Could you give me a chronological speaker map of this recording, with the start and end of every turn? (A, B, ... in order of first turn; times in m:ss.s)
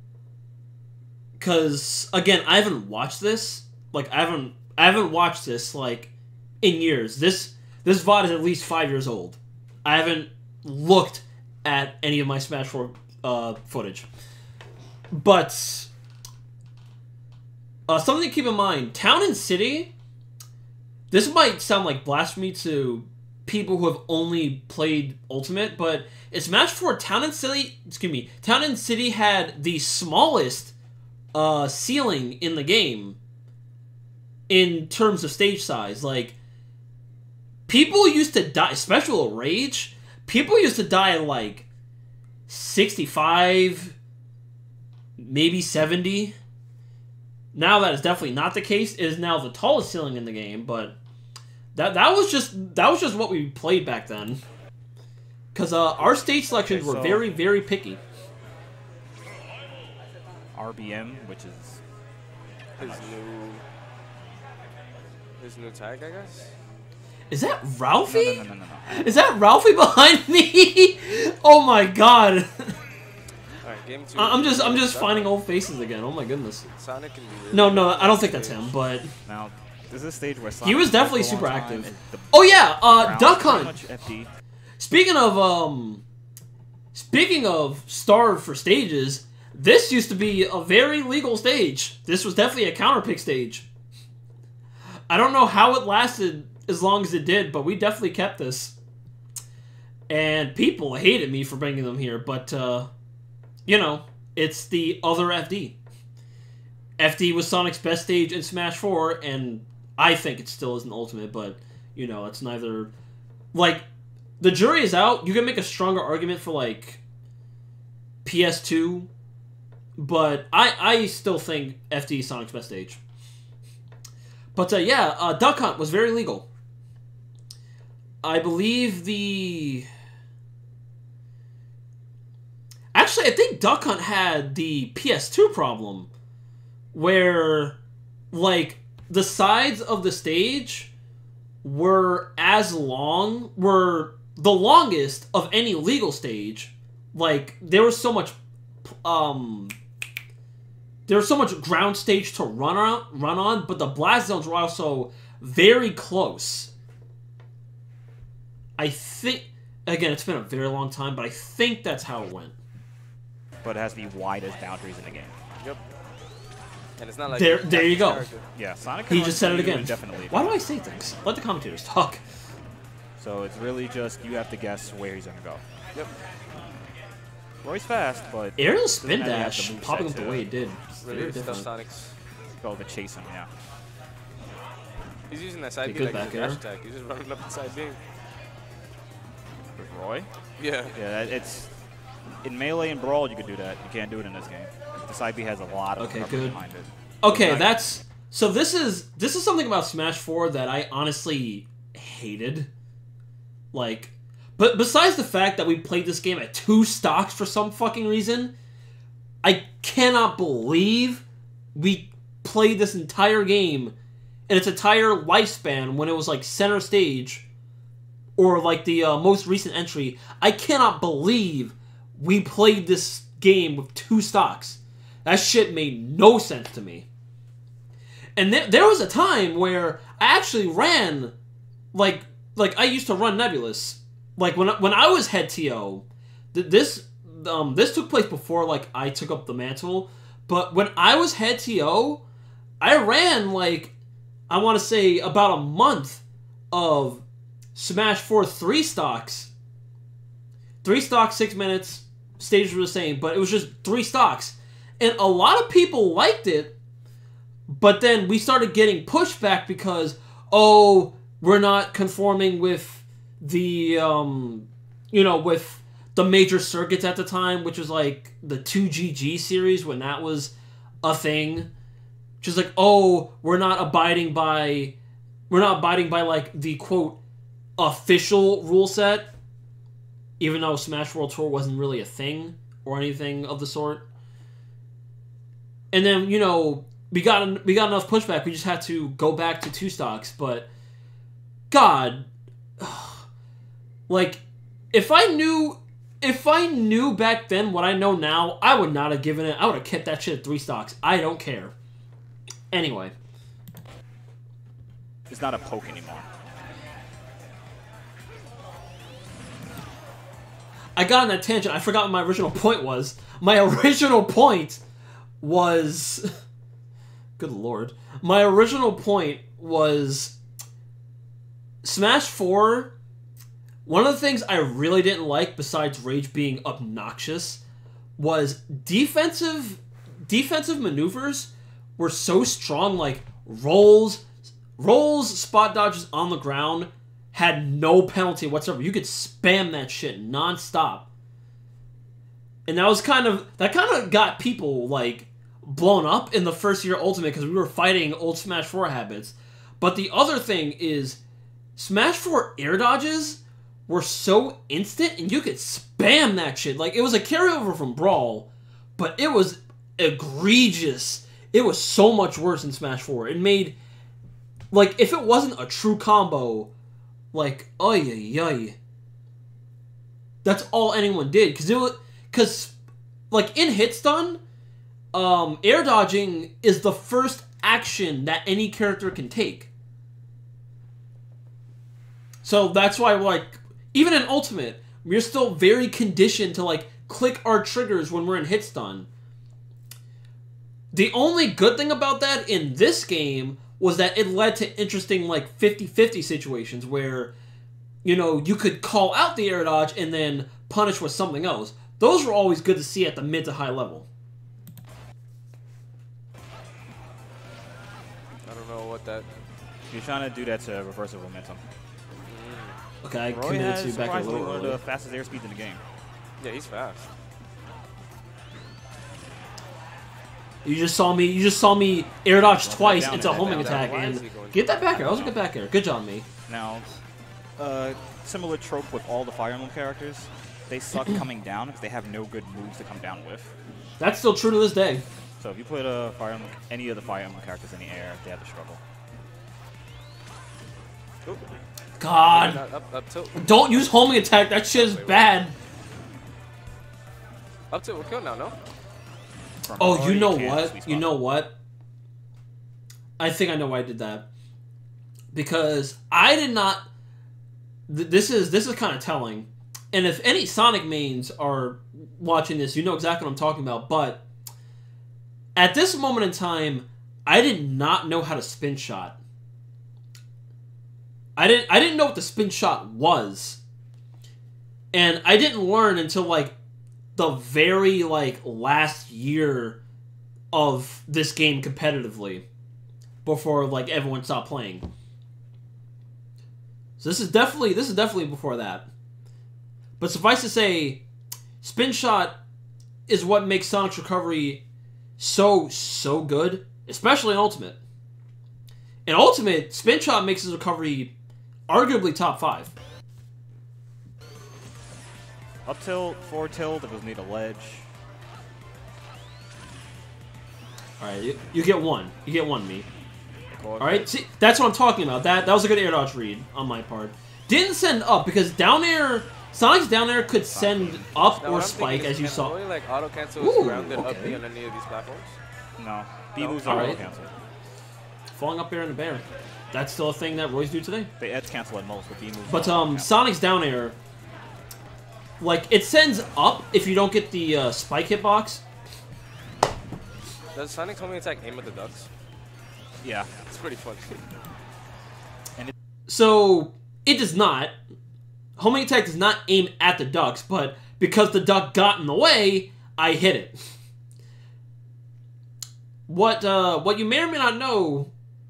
0:01.4-0:14.1 A
0:15.1-0:15.9 A
0:17.9-0:19.9 A
0:21.1-0:30.7 A
0:31.3-0:33.2 A
0:34.5-0:36.4 A
0:37.7-0:41.7 A
0:42.5-0:44.0 A
0:45.2-0:46.4 A
0:47.5-0:51.0 A
0:51.8-0:54.4 A
0:55.5-0:58.0 A
0:56.4-0:57.3 B
1:00.5-1:01.8 B
1:02.8-1:03.2 B
1:02.8-1:03.6 C
1:05.4-1:06.5 C
1:07.3-1:12.7 A
1:08.0-1:09.1 B
1:13.6-1:15.4 C
1:14.2-1:16.6 A
1:16.7-1:18.7 C
1:17.5-1:19.1 A
1:19.2-1:24.3 B
1:20.6-1:23.8 A
1:24.8-1:26.0 A
1:26.9-1:33.7 A
1:35.1-1:38.8 A
1:40.1-1:42.9 A
1:43.6-1:45.8 A
1:47.0-1:52.9 A
1:53.5-1:53.9 A
1:54.4-1:57.0 A
1:58.2-1:59.1 A
2:00.0-2:03.0 A
2:04.5-2:06.5 A
2:08.2-2:09.9 A
2:12.9-2:16.1 A
2:16.9-2:17.8 A
2:18.3-2:20.9 A
2:21.6-2:29.8 A
2:31.1-2:36.7 A
2:38.8-2:42.6 A
2:43.6-2:45.3 B
2:47.0-2:48.5 C
2:47.3-2:48.3 A
2:48.5-2:50.6 B
2:49.1-2:52.2 A
2:53.2-2:55.6 B
2:57.6-3:00.6 B
2:58.6-3:01.7 A
3:01.0-3:02.2 C
3:02.6-3:03.5 B
3:05.3-3:08.0 C
3:05.8-3:06.6 A
3:09.8-3:10.3 B
3:10.6-3:11.0 C
3:10.9-3:11.7 B
3:12.4-3:17.7 B
3:16.0-3:16.6 A
3:17.2-3:22.7 A
3:23.7-3:28.5 A
3:29.4-3:31.2 A
3:31.8-3:34.0 A
3:34.5-3:37.5 A
3:38.4-3:47.1 A
3:48.4-3:51.3 A
3:51.9-4:02.2 A
4:02.8-4:03.9 A
4:04.5-4:07.2 A
4:07.8-4:09.5 A
4:10.8-4:16.8 A
4:17.7-4:31.7 A
4:32.4-4:35.0 A
4:35.5-4:37.2 A
4:37.8-4:39.3 A
4:40.4-4:44.0 A
4:45.9-4:50.7 A
4:51.7-4:52.3 A
4:52.8-4:53.3 A
4:54.1-5:01.7 A
5:02.7-5:03.1 A
5:05.3-5:06.3 B
5:11.0-5:14.8 A
5:15.4-5:16.3 A
5:17.4-5:20.4 A
5:21.8-5:22.9 A
5:23.8-5:27.6 A
5:28.2-5:34.2 A
5:34.8-5:41.1 A
5:42.7-5:51.2 A
5:51.8-6:03.8 A
6:04.7-6:06.7 A
6:07.3-6:08.8 A
6:10.4-6:12.7 A
6:13.3-6:14.4 A
6:15.1-6:19.7 A
6:22.4-6:29.1 A
6:30.9-6:37.3 A
6:38.0-6:44.1 A
6:48.4-6:49.3 C
6:49.9-6:51.6 B
6:52.2-6:52.8 C
6:53.0-6:54.8 A
6:53.3-6:55.8 B
6:56.4-6:57.1 C
7:00.6-7:06.3 A
7:02.4-7:04.0 B
7:02.9-7:05.2 C
7:05.0-7:05.3 B
7:06.5-7:06.9 B
7:07.6-7:13.5 B
7:14.0-7:15.0 A
7:15.4-7:18.8 B
7:22.0-7:22.6 A
7:22.3-7:23.7 C
7:23.3-7:25.5 A
7:24.7-7:25.4 C
7:27.7-7:28.6 C
7:29.6-7:31.1 B
7:29.8-7:31.5 A
7:33.2-7:34.3 A
7:35.3-7:36.8 A
7:37.9-7:44.2 A
7:45.5-7:49.2 A
7:51.4-7:53.6 A
7:54.9-7:56.5 A
7:57.2-7:59.8 A
8:00.5-8:02.4 A
8:03.2-8:04.8 A
8:07.0-8:08.9 A
8:10.0-8:11.0 A
8:11.6-8:12.4 A
8:13.1-8:14.6 A
8:15.2-8:17.8 A
8:19.1-8:21.1 A
8:21.7-8:22.7 A
8:25.6-8:27.9 B
8:31.0-8:32.8 A
8:33.5-8:34.1 B
8:33.8-8:42.6 A
8:40.5-8:41.4 B
8:41.4-8:45.4 C
8:43.4-8:44.4 A
8:45.8-8:47.3 B
8:46.4-8:47.0 C
8:46.7-8:47.0 A
8:48.3-8:51.1 A
8:51.2-8:53.1 B
8:52.5-8:54.0 A
8:55.4-8:58.6 A
9:00.5-9:02.1 C
9:03.0-9:03.3 B
9:03.4-9:04.2 C
9:06.1-9:07.8 A
9:08.6-9:13.6 A
9:16.1-9:18.1 A